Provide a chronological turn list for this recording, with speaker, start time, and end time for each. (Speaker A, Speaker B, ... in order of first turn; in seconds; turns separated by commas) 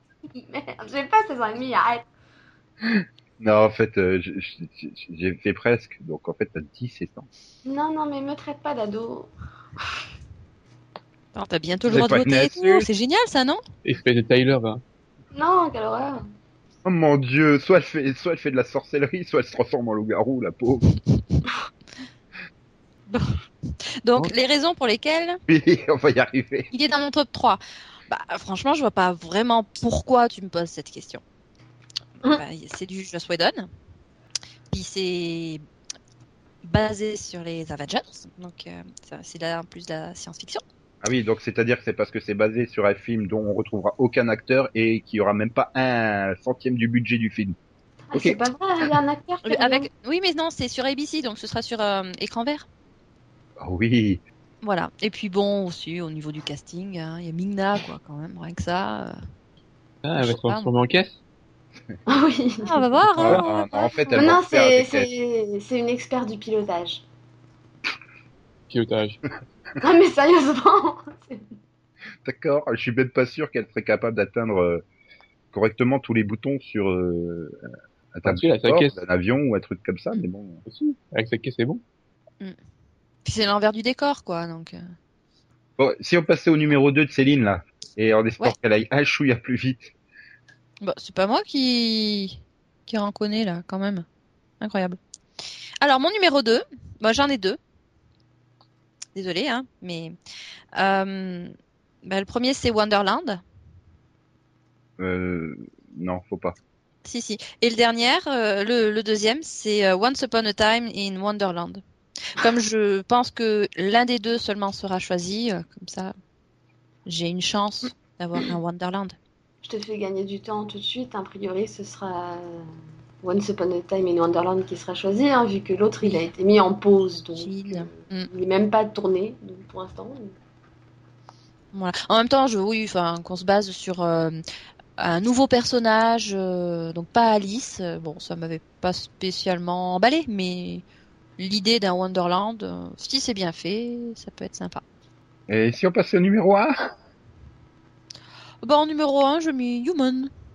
Speaker A: 0.3-2.1, Speaker B: 2.8-7.3, Speaker A: 7.6-9.3, Speaker C: 11.3-13.6, Speaker B: 11.8-12.9, Speaker D: 13.8-14.8, Speaker A: 15.3-16.2, Speaker B: 16.8-20.9, Speaker C: 23.1-23.4, Speaker C: 24.0-25.4, Speaker B: 25.5-26.7, Speaker C: 26.7-31.2, Speaker C: 32.2-33.7, Speaker C: 34.7-35.6, Speaker C: 36.6-40.6, Speaker B: 41.0-47.6, Speaker A: 48.1-49.9, Speaker B: 48.1-48.9, Speaker C: 49.4-52.6, Speaker B: 53.6-54.2, Speaker C: 54.6-59.2, Speaker D: 60.0-61.1, Speaker C: 60.2-60.7, Speaker A: 62.1-62.9, Speaker C: 62.6-64.2, Speaker B: 63.2-65.1, Speaker A: 64.1-67.0, Speaker D: 68.7-69.2, Speaker A: 69.8-71.4, Speaker B: 72.2-74.8, Speaker B: 75.5-77.6, Speaker B: 78.1-80.6, Speaker D: 78.2-78.9, Speaker D: 80.7-81.8, Speaker C: 83.2-84.8, Speaker B: 85.8-89.9, Speaker C: 90.8-94.0, Speaker C: 94.6-95.0, Speaker C: 95.8-97.6, Speaker C: 99.2-100.1, Speaker C: 100.7-103.4, Speaker B: 105.0-106.5, Speaker C: 107.0-116.1, Speaker C: 117.0-119.2, Speaker A: 119.6-122.7, Speaker A: 123.2-130.3, Speaker C: 127.4-128.3, Speaker C: 131.7-134.4, Speaker C: 135.0-140.8, Speaker C: 141.4-144.8, Speaker B: 145.5-146.7, Speaker C: 148.6-150.3